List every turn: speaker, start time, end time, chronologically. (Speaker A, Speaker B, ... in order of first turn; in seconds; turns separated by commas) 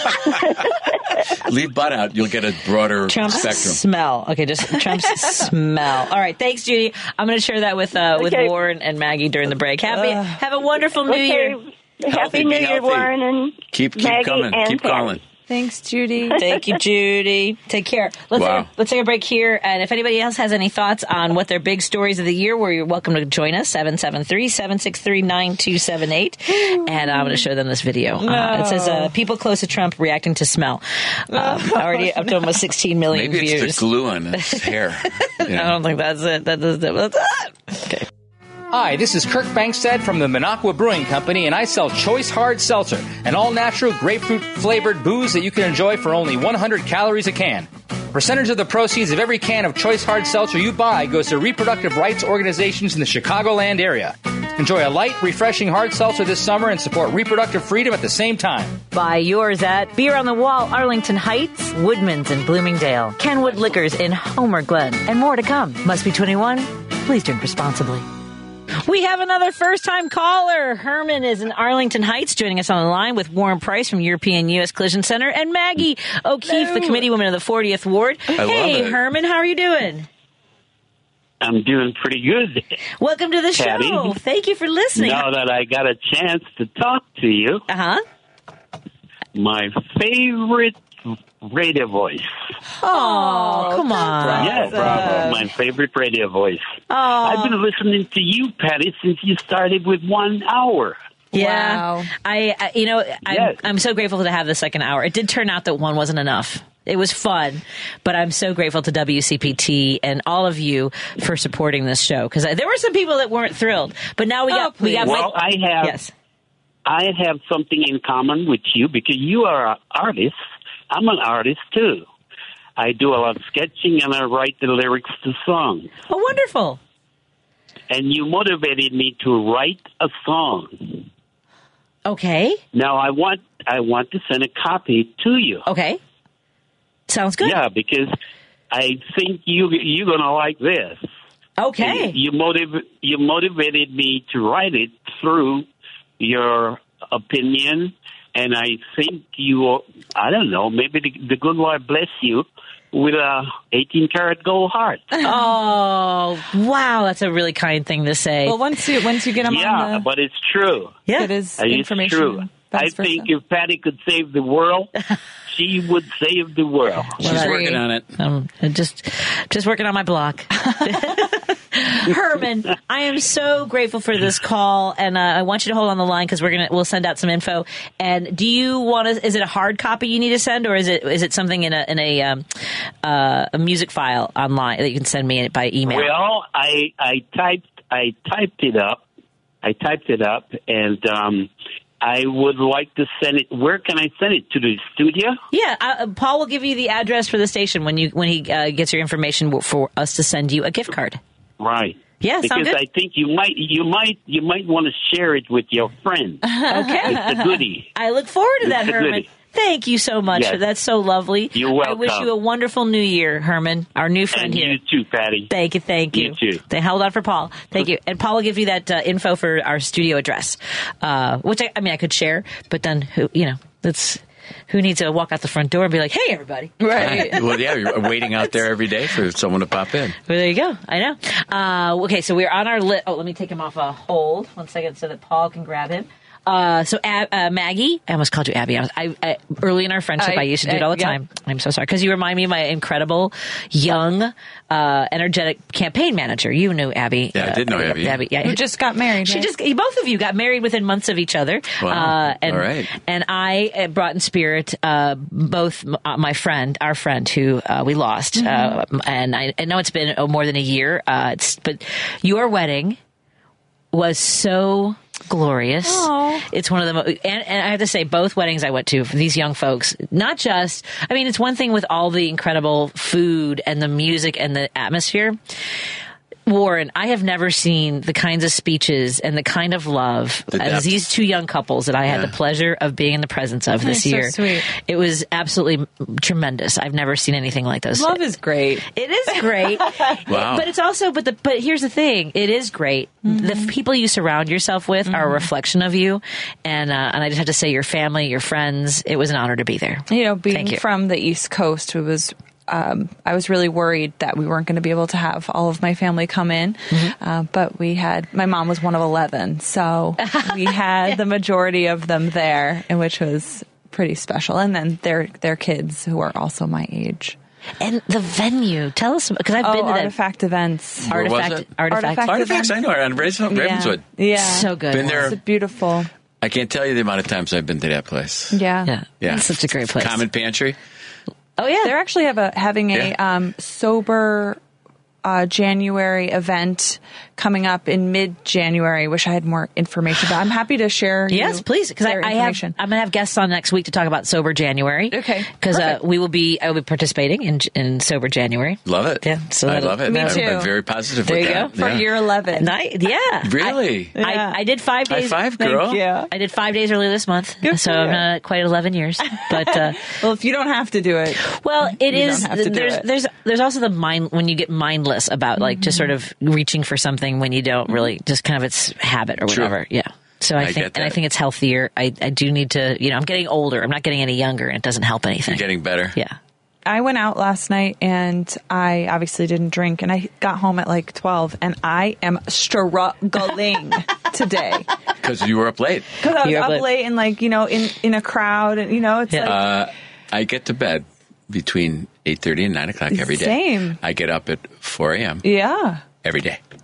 Speaker A: 0.3-1.2, Speaker B: 1.4-3.8, Speaker C: 3.1-11.6, Speaker A: 8.2-8.5, Speaker D: 9.9-10.4, Speaker A: 11.1-15.2, Speaker B: 12.1-13.1, Speaker B: 13.7-15.2, Speaker D: 15.5-16.4, Speaker C: 16.4-33.9, Speaker B: 18.3-18.7, Speaker D: 26.5-27.5, Speaker D: 28.2-29.1, Speaker D: 31.3-32.5, Speaker B: 33.1-35.8, Speaker C: 34.4-38.1, Speaker E: 38.7-58.8, Speaker C: 58.9-68.1, Speaker C: 68.8-80.1, Speaker D: 76.5-77.0, Speaker B: 78.4-79.0, Speaker F: 81.4-82.7, Speaker C: 83.0-85.3, Speaker F: 83.5-84.2, Speaker F: 85.0-87.7, Speaker C: 87.7-88.0, Speaker F: 89.3-92.3, Speaker D: 92.8-95.4, Speaker C: 92.8-95.4, Speaker F: 94.3-101.0, Speaker C: 96.9-97.6, Speaker D: 101.3-102.1, Speaker C: 101.3-116.1, Speaker F: 103.3-103.6, Speaker D: 114.5-115.3, Speaker F: 115.0-116.0, Speaker F: 116.9-120.4, Speaker F: 120.9-122.1, Speaker F: 122.8-125.9, Speaker C: 126.1-126.8, Speaker F: 127.9-131.1, Speaker C: 132.1-132.6, Speaker F: 132.7-135.7, Speaker C: 135.7-136.0, Speaker C: 137.1-137.6, Speaker F: 137.4-138.1, Speaker F: 138.7-141.0, Speaker C: 141.6-142.2, Speaker F: 141.8-145.7, Speaker F: 146.2-155.2, Speaker C: 155.2-158.6, Speaker D: 158.4-160.1, Speaker F: 159.4-161.0, Speaker C: 161.1-161.3, Speaker D: 161.1-163.3, Speaker F: 161.6-164.9, Speaker F: 165.5-167.2, Speaker C: 167.2-182.5, Speaker B: 167.2-168.2, Speaker D: 167.2-167.8, Speaker C: 183.0-186.1, Speaker F: 185.9-189.0, Speaker F: 189.6-191.5, Speaker F: 192.0-195.4, Speaker C: 195.5-201.2, Speaker F: 201.6-207.9, Speaker C: 202.2-202.8, Speaker D: 206.5-207.5, Speaker C: 206.7-207.2, Speaker C: 207.9-214.8, Speaker F: 208.6-209.3, Speaker F: 210.3-210.6, Speaker F: 211.5-212.3, Speaker F: 214.3-215.5, Speaker C: 215.5-227.4, Speaker F: 216.1-216.6, Speaker D: 226.8-227.6, Speaker B: 226.9-230.2, Speaker C: 230.3-248.6, Speaker D: 240.2-241.2, Speaker B: 247.3-248.2, Speaker D: 248.4-249.5, Speaker C: 249.2-263.0, Speaker B: 251.8-252.9, Speaker D: 258.4-258.8, Speaker C: 263.9-275.4, Speaker D: 265.8-266.4, Speaker C: 276.5-288.2, Speaker B: 280.5-281.0, Speaker B: 282.1-282.3, Speaker D: 283.8-284.7, Speaker D: 287.9-288.9, Speaker C: 288.9-300.8, Speaker B: 290.3-290.7, Speaker D: 293.2-293.7, Speaker D: 295.1-295.5, Speaker D: 300.1-317.4, Speaker C: 310.2-311.2, Speaker C: 317.8-320.1, Speaker D: 319.6-321.1, Speaker B: 321.1-324.0, Speaker C: 321.1-322.3, Speaker D: 321.9-322.8, Speaker D: 323.5-326.1, Speaker C: 324.4-325.3, Speaker B: 324.9-325.4, Speaker B: 326.4-328.6, Speaker D: 328.5-328.9, Speaker C: 328.9-330.2, Speaker B: 329.2-330.8, Speaker C: 331.6-331.9, Speaker D: 331.8-334.6, Speaker D: 335.2-342.8, Speaker C: 341.3-350.5, Speaker D: 345.1-346.0, Speaker B: 348.9-352.1, Speaker D: 350.1-350.7, Speaker C: 351.2-351.8, Speaker D: 351.7-352.7, Speaker C: 352.5-353.6, Speaker B: 353.4-354.2, Speaker D: 353.6-354.6, Speaker C: 354.2-355.7, Speaker B: 355.1-356.0, Speaker D: 355.6-356.3, Speaker C: 356.3-360.0, Speaker D: 357.6-358.2, Speaker D: 359.4-363.1, Speaker C: 361.4-376.4, Speaker D: 365.6-366.1, Speaker B: 369.5-369.8, Speaker B: 370.6-371.2, Speaker B: 375.5-376.2, Speaker D: 376.9-384.9, Speaker B: 385.2-386.1, Speaker D: 386.2-389.7, Speaker C: 386.4-386.9, Speaker B: 389.4-395.5, Speaker D: 393.1-394.0, Speaker D: 395.4-396.0, Speaker B: 396.2-396.6